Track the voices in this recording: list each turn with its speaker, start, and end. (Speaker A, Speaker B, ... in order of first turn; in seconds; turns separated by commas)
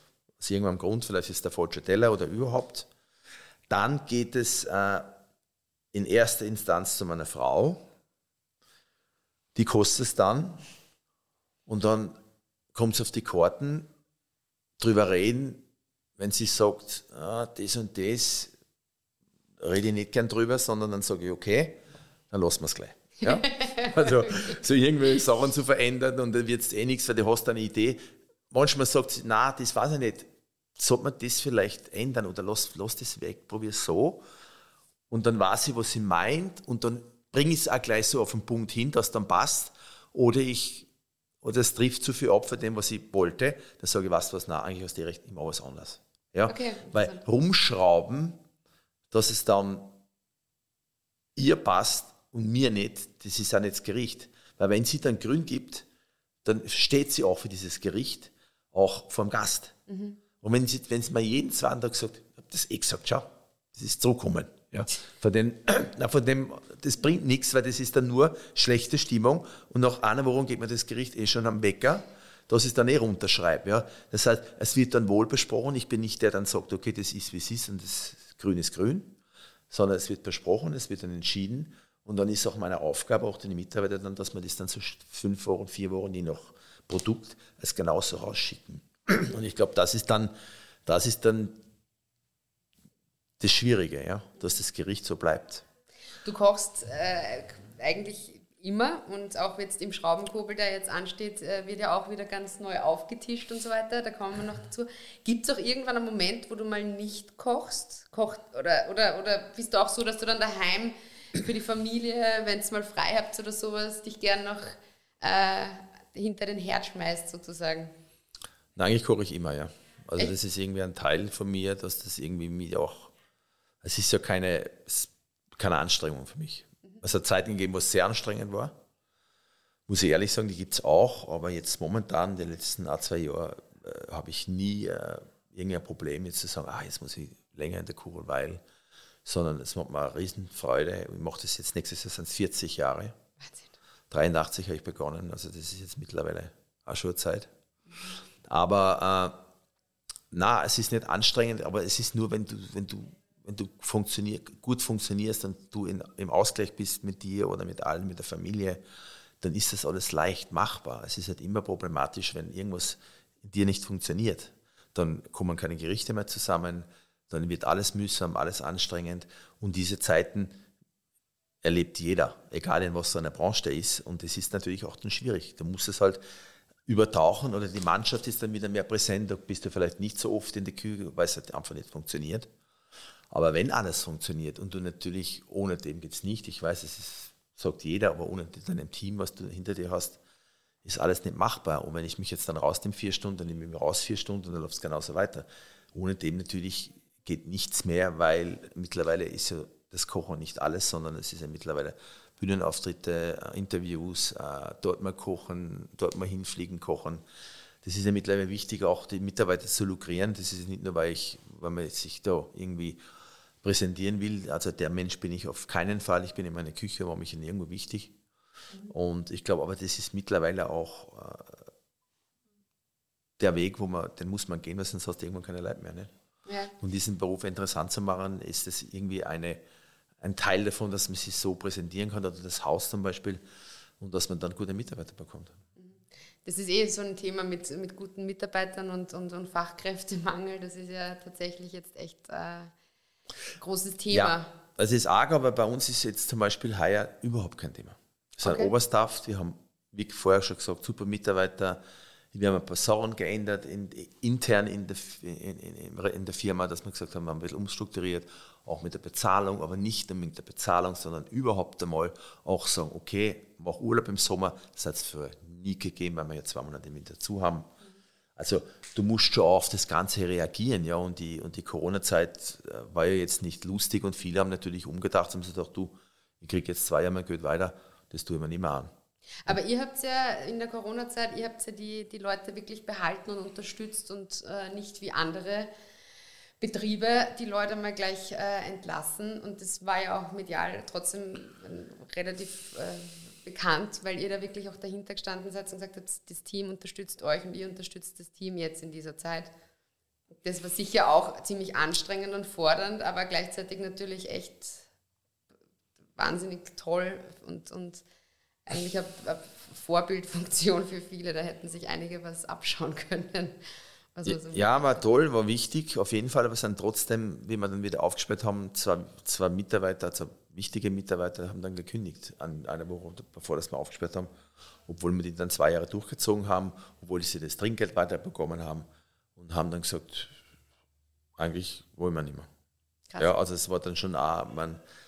Speaker A: 0.4-2.9, Speaker A: 3.7-5.1, Speaker A: 5.9-7.8, Speaker A: 9.5-10.6, Speaker A: 11.7-12.2, Speaker A: 12.7-13.9, Speaker A: 14.8-15.6, Speaker A: 16.2-18.5, Speaker A: 19.6-21.8, Speaker A: 22.3-34.2, Speaker B: 23.6-24.1, Speaker A: 35.1-40.9, Speaker A: 41.4-48.4, Speaker B: 46.5-47.2, Speaker A: 49.1-50.0, Speaker A: 51.4-55.8, Speaker A: 56.4-59.8, Speaker B: 59.9-60.2, Speaker A: 60.4-79.2, Speaker A: 79.7-90.3, Speaker A: 90.8-91.6, Speaker A: 93.4-95.6, Speaker B: 96.2-117.9, Speaker A: 118.8-123.1, Speaker A: 123.8-128.7, Speaker A: 129.9-138.6, Speaker A: 139.2-143.1, Speaker B: 143.4-143.7, Speaker A: 144.1-147.5, Speaker A: 148.5-149.3, Speaker A: 150.3-158.8, Speaker A: 159.4-170.5, Speaker A: 171.6-176.2, Speaker A: 176.9-182.5, Speaker A: 183.3-190.2, Speaker A: 190.8-207.2, Speaker A: 207.8-213.0, Speaker A: 213.6-218.2, Speaker A: 218.9-221.6, Speaker A: 223.4-226.1, Speaker B: 226.4-226.7, Speaker A: 226.8-229.6, Speaker A: 230.2-233.4, Speaker A: 234.0-235.5, Speaker B: 235.8-242.7, Speaker B: 243.6-244.5, Speaker A: 244.1-251.8, Speaker B: 248.4-248.7, Speaker A: 252.3-267.7, Speaker A: 268.4-278.9, Speaker B: 279.4-285.7, Speaker B: 286.6-299.5, Speaker B: 300.4-304.8, Speaker B: 306.1-308.0, Speaker B: 308.7-313.6, Speaker B: 314.1-315.0, Speaker A: 314.2-324.3, Speaker A: 324.9-328.8, Speaker A: 329.4-330.4, Speaker A: 331.4-332.5, Speaker A: 333.2-334.8